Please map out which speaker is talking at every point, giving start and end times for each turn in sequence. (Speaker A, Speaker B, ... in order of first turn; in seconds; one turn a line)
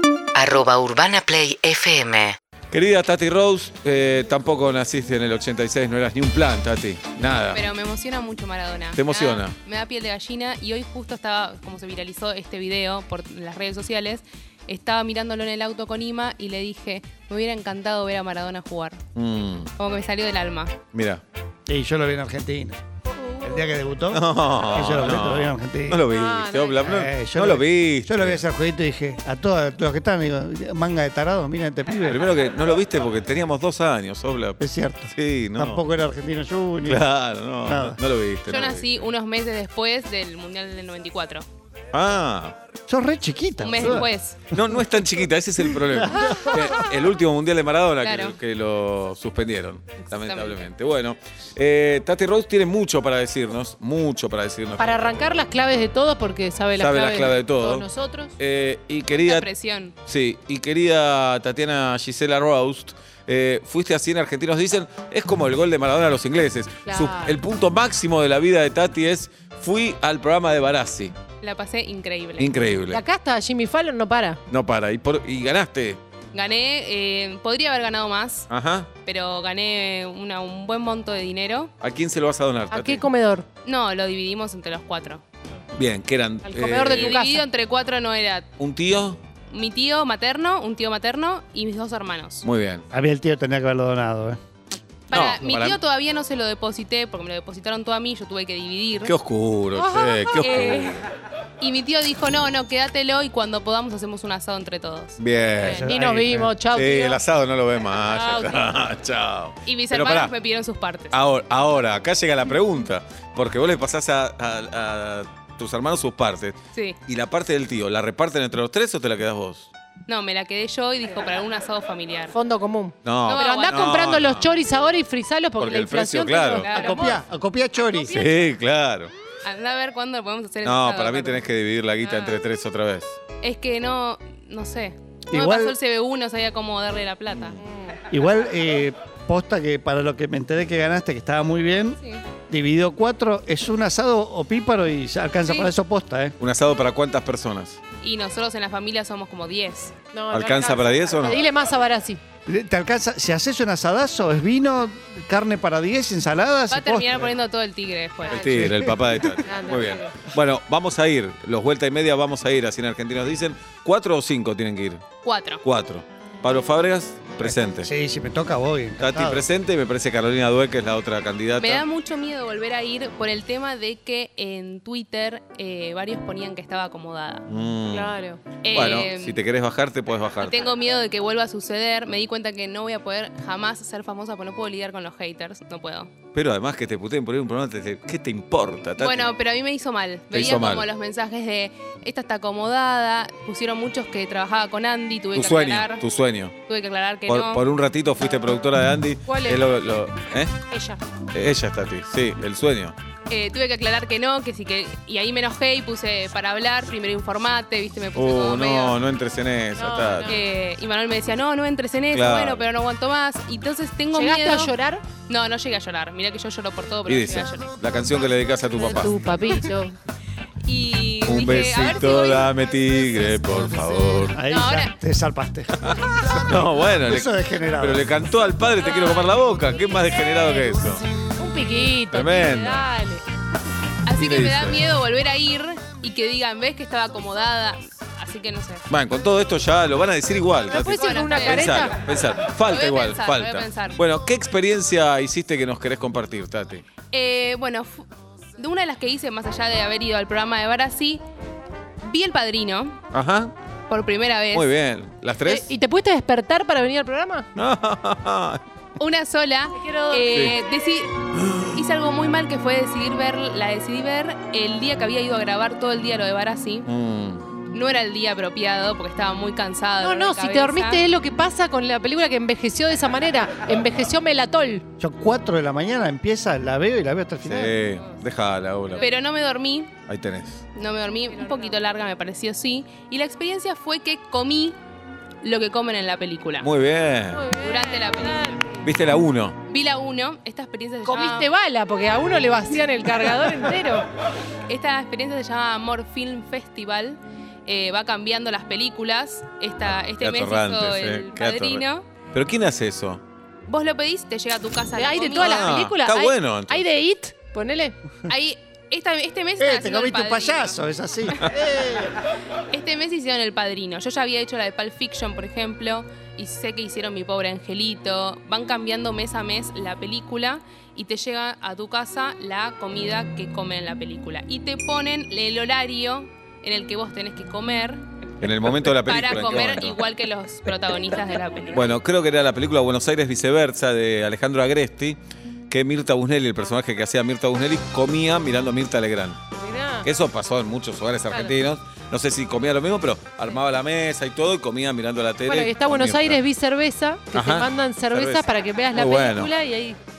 Speaker A: 0.3-2.4
Speaker B: 2.7-7.6
Speaker C: 7.5-19.0
Speaker B: 8.9-9.5
Speaker B: 19.1-19.7
Speaker C: 19.8-20.8
Speaker B: 20.9-21.2
Speaker D: 21.7-22.8
Speaker D: 23.4-26.1
Speaker B: 24.1-28.4
Speaker E: 26.1-26.8
Speaker D: 26.8-32.2
Speaker B: 32.1-35.9
Speaker D: 34.6-37.0
Speaker B: 36.9-39.0
Speaker D: 37.6-38.0
Speaker C: 38.5-41.4
Speaker B: 41.9-42.5
Speaker D: 42.9-44.8
Speaker C: 43.6-44.4
Speaker B: 44.5-55.0
Speaker D: 45.8-46.8
Speaker C: 48.0-48.4
Speaker C: 50.0-50.6
Speaker E: 54.8-58.3
Speaker B: 56.8-57.9
Speaker B: 58.4-59.5
Speaker C: 59.2-59.9
Speaker B: 60.0-71.1
Speaker E: 66.9-67.4
Speaker C: 71.4-72.5
Speaker B: 72.4-73.0
Speaker E: 72.9-74.4
Speaker B: 74.5-76.0
Speaker C: 76.3-78.5
Speaker B: 78.5-78.9
Speaker C: 79.0-81.7
Speaker B: 81.8-83.0
Speaker E: 82.7-83.4
Speaker C: 83.6-85.2
Speaker B: 85.7-87.2
Speaker E: 86.4-87.4
Speaker C: 87.0-88.5
Speaker B: 88.6-89.2
Speaker C: 89.5-92.5
Speaker B: 92.4-92.8
Speaker D: 92.9-94.4
Speaker C: 95.1-99.1
Speaker B: 95.1-95.8
Speaker B: 99.0-101.0
Speaker E: 99.7-100.3
Speaker C: 100.3-101.0
Speaker C: 101.6-105.2
Speaker B: 105.2-105.9
Speaker D: 105.6-106.5
Speaker E: 105.6-107.2
Speaker B: 106.7-110.3
Speaker E: 108.0-108.7
Speaker C: 109.6-111.2
Speaker B: 111.1-116.5
Speaker B: 117.1-119.7
Speaker C: 120.1-122.3
Speaker E: 122.3-127.1
Speaker B: 123.0-124.6
Speaker C: 123.2-124.0
Speaker B: 125.6-126.7
Speaker C: 126.6-127.2
Speaker D: 126.7-128.2
Speaker E: 128.0-128.5
Speaker B: 128.1-129.1
Speaker C: 129.4-131.5
Speaker B: 130.6-133.2
Speaker C: 133.4-137.6
Speaker D: 135.3-135.8
Speaker B: 137.3-137.6
Speaker E: 137.6-137.9
Speaker D: 138.1-142.0
Speaker D: 142.5-146.3
Speaker C: 145.4-145.7
Speaker B: 146.4-147.8
Speaker C: 148.0-149.9
Speaker E: 150.1-152.2
Speaker B: 150.3-151.4
Speaker D: 152.5-157.3
Speaker C: 156.7-158.5
Speaker E: 158.3-158.7
Speaker B: 158.3-165.0
Speaker D: 158.6-158.9
Speaker E: 159.4-160.2
Speaker C: 165.2-165.6
Speaker B: 165.6-167.9
Speaker D: 167.4-169.4
Speaker B: 169.0-171.8
Speaker C: 171.6-177.4
Speaker B: 177.5-178.1
Speaker E: 177.9-178.4
Speaker C: 178.6-179.4
Speaker B: 178.7-180.6
Speaker C: 180.4-186.1
Speaker B: 186.3-189.3
Speaker C: 189.0-196.0
Speaker B: 190.3-190.8
Speaker B: 195.3-196.5
Speaker C: 196.7-197.6
Speaker B: 197.3-200.5
Speaker E: 199.2-199.7
Speaker E: 200.7-201.0
Speaker B: 201.3-202.9
Speaker C: 203.3-209.0
Speaker B: 208.1-210.3
Speaker E: 209.8-210.4
Speaker C: 210.3-214.7
Speaker B: 212.1-212.7
Speaker E: 214.1-215.0
Speaker C: 215.3-217.7
Speaker B: 217.1-219.3
Speaker E: 218.8-219.9
Speaker C: 220.6-222.5
Speaker B: 221.2-224.4
Speaker D: 224.3-228.1
Speaker C: 224.5-224.9
Speaker B: 225.8-231.0
Speaker E: 231.4-233.2
Speaker B: 232.1-232.9
Speaker C: 234.0-238.8
Speaker B: 234.2-234.9
Speaker B: 238.9-246.8
Speaker E: 240.7-241.9
Speaker C: 240.9-241.9
Speaker C: 242.6-244.0
Speaker C: 247.1-251.2
Speaker C: 252.0-253.0
Speaker B: 253.1-253.5
Speaker C: 253.9-254.8
Speaker B: 254.5-255.7
Speaker E: 255.4-257.4
Speaker B: 257.6-258.6
Speaker C: 259.0-261.2
Speaker E: 259.8-260.6
Speaker B: 260.3-260.5
Speaker C: 261.7-266.9
Speaker B: 266.9-267.4
Speaker C: 267.7-271.0
Speaker E: 270.0-274.8
Speaker D: 275.0-277.7
Speaker B: 277.4-279.0
Speaker C: 279.0-279.9
Speaker B: 280.1-280.6
Speaker C: 280.7-284.8
Speaker E: 281.3-281.8
Speaker C: 285.4-286.7
Speaker B: 286.6-287.5
Speaker E: 287.3-288.8
Speaker C: 287.6-288.6
Speaker B: 288.8-289.6
Speaker C: 289.7-291.5
Speaker E: 291.1-294.1
Speaker C: 294.7-302.1
Speaker B: 300.2-303.2
Speaker C: 303.6-305.7
Speaker E: 304.9-307.9
Speaker B: 305.4-306.9
Speaker C: 308.3-310.8
Speaker D: 309.6-312.1
Speaker C: 312.7-328.0
Speaker B: 328.4-330.0
Speaker C: 328.8-331.9
Speaker B: 331.7-339.4
Speaker E: 339.6-340.1
Speaker B: 340.0-346.4
Speaker E: 341.3-341.5
Speaker E: 345.4-350.0
Speaker B: 347.3-349.5